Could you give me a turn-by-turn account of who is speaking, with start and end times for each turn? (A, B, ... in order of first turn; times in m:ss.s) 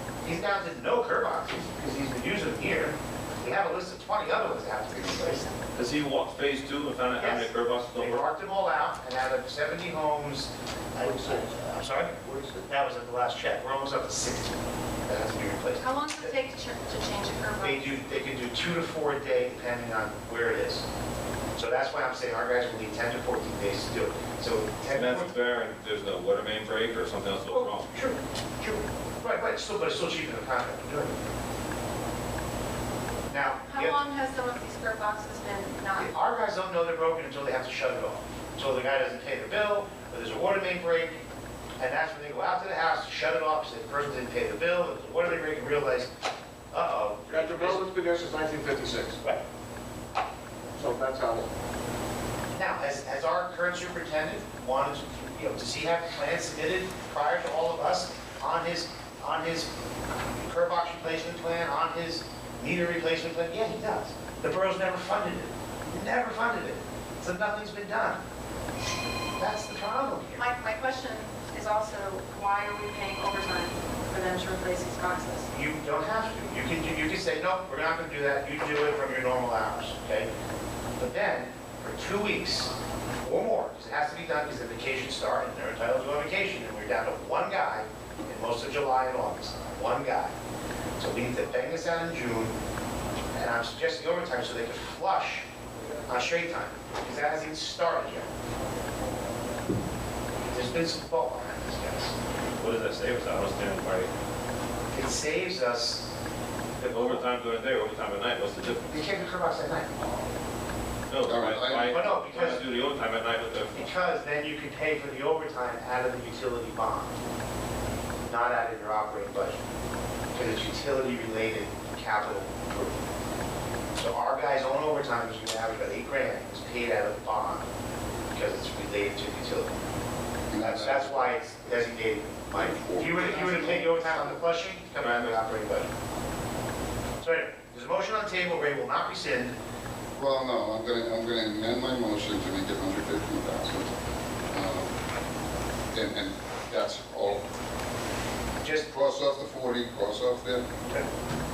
0:00.2-0:05.5 A
0:05.2-0:05.6 B
0:05.8-0:08.3 C
0:07.2-0:12.1 A
0:11.0-0:12.7 D
0:12.7-0:16.4 A
0:15.8-0:18.1 B
0:17.6-0:20.8 A
0:21.6-0:25.3 A
0:24.9-0:27.9 C
0:27.5-0:31.2 A
0:33.3-0:34.0 A
0:33.7-0:36.1 B
0:36.0-0:41.2 A
0:41.8-0:46.1 A
0:46.7-0:47.8 A
0:47.3-0:49.2 D
0:50.8-0:51.5 D
0:52.6-0:59.7 A
1:00.4-1:08.2 A
1:09.4-1:10.4 A
1:10.4-1:15.5 B
1:15.5-1:20.3 A
1:21.0-1:30.4 A
1:31.0-1:32.6 A
1:33.3-1:35.5 A
1:36.1-1:38.3 A
1:40.5-1:42.1 A
1:42.6-1:44.1 C
1:44.9-1:46.1 A
1:46.8-1:47.2 A
1:46.9-1:49.2 C
1:48.9-1:50.3 A
1:51.1-1:53.9 C
1:51.2-1:52.2 E
1:51.9-1:52.6 A
1:53.8-1:57.2 A
1:58.3-1:59.6 A
2:00.3-2:03.0 A
2:04.0-2:07.7 A
2:08.3-2:09.8 A
2:10.5-2:11.3 E
2:10.6-2:15.9 A
2:12.5-2:14.4 E
2:15.0-2:15.4 C
2:17.2-2:19.6 A
2:20.2-2:23.9 E
2:24.5-2:25.0 E
2:25.9-2:27.4 E
2:28.6-2:28.9 A
2:28.9-2:30.7 E